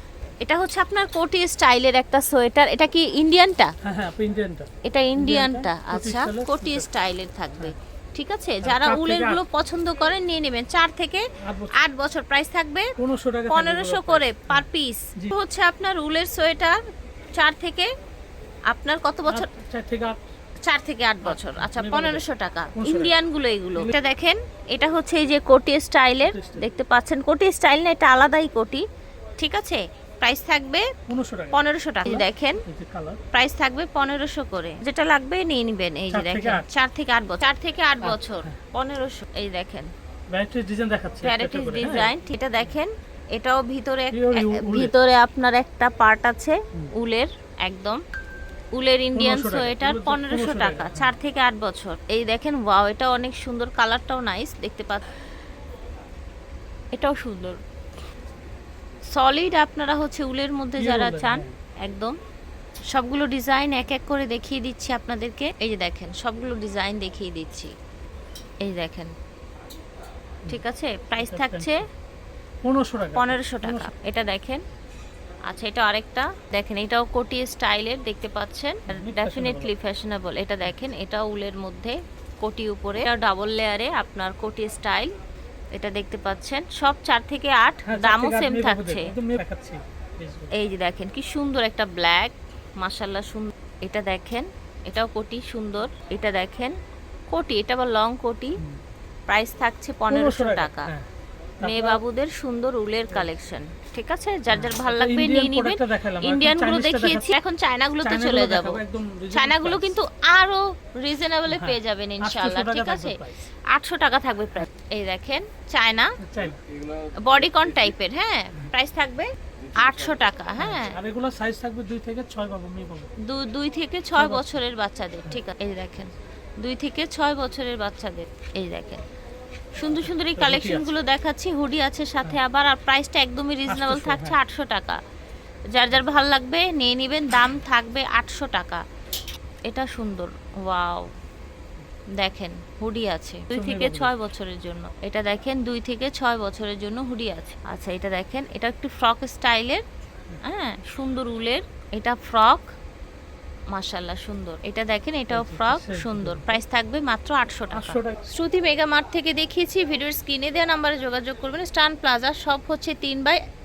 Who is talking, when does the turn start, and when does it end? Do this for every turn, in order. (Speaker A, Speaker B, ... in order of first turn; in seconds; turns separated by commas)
Speaker A: 0.4-3.7, Speaker B: 3.8-6.9, Speaker A: 4.8-12.9, Speaker B: 8.6-9.4, Speaker B: 11.4-11.8, Speaker B: 13.0-15.4, Speaker A: 13.5-16.8, Speaker A: 17.3-17.9, Speaker A: 18.7-19.5, Speaker B: 19.3-20.2, Speaker A: 20.6-28.8, Speaker B: 21.2-23.2, Speaker B: 26.2-26.7, Speaker A: 29.4-30.9, Speaker B: 31.1-33.2, Speaker A: 31.5-32.6, Speaker A: 33.3-39.9, Speaker B: 36.1-36.6, Speaker B: 38.0-38.6, Speaker B: 40.3-42.1, Speaker A: 41.2-48.0, Speaker B: 44.1-44.9, Speaker A: 48.8-55.0, Speaker B: 49.1-51.1, Speaker A: 56.9-57.6, Speaker A: 59.1-62.1, Speaker B: 60.8-61.5, Speaker A: 62.9-67.7, Speaker A: 68.6-69.1, Speaker A: 70.5-71.8, Speaker B: 71.2-71.8, Speaker B: 72.6-73.9, Speaker A: 73.1-74.6, Speaker A: 75.5-85.1, Speaker B: 78.9-79.7, Speaker A: 85.7-89.1, Speaker B: 87.8-90.5, Speaker A: 90.5-96.7, Speaker A: 97.3-98.6, Speaker A: 99.3-100.9, Speaker B: 100.1-101.1, Speaker B: 101.6-102.0, Speaker A: 101.6-108.8, Speaker B: 104.5-107.3, Speaker B: 108.0-110.0, Speaker A: 109.3-113.2, Speaker B: 111.5-113.5, Speaker A: 113.7-116.1, Speaker B: 116.2-116.6, Speaker A: 117.2-119.3, Speaker A: 119.8-120.9, Speaker B: 120.6-123.1, Speaker A: 123.2-129.0, Speaker B: 124.2-124.6, Speaker A: 129.8-135.0, Speaker B: 130.1-130.9, Speaker B: 133.7-134.4, Speaker A: 135.7-138.8, Speaker A: 139.7-141.1, Speaker A: 142.2-149.8, Speaker B: 143.5-144.1, Speaker A: 150.4-152.7, Speaker A: 153.7-163.4, Speaker B: 155.3-156.4, Speaker B: 157.7-158.2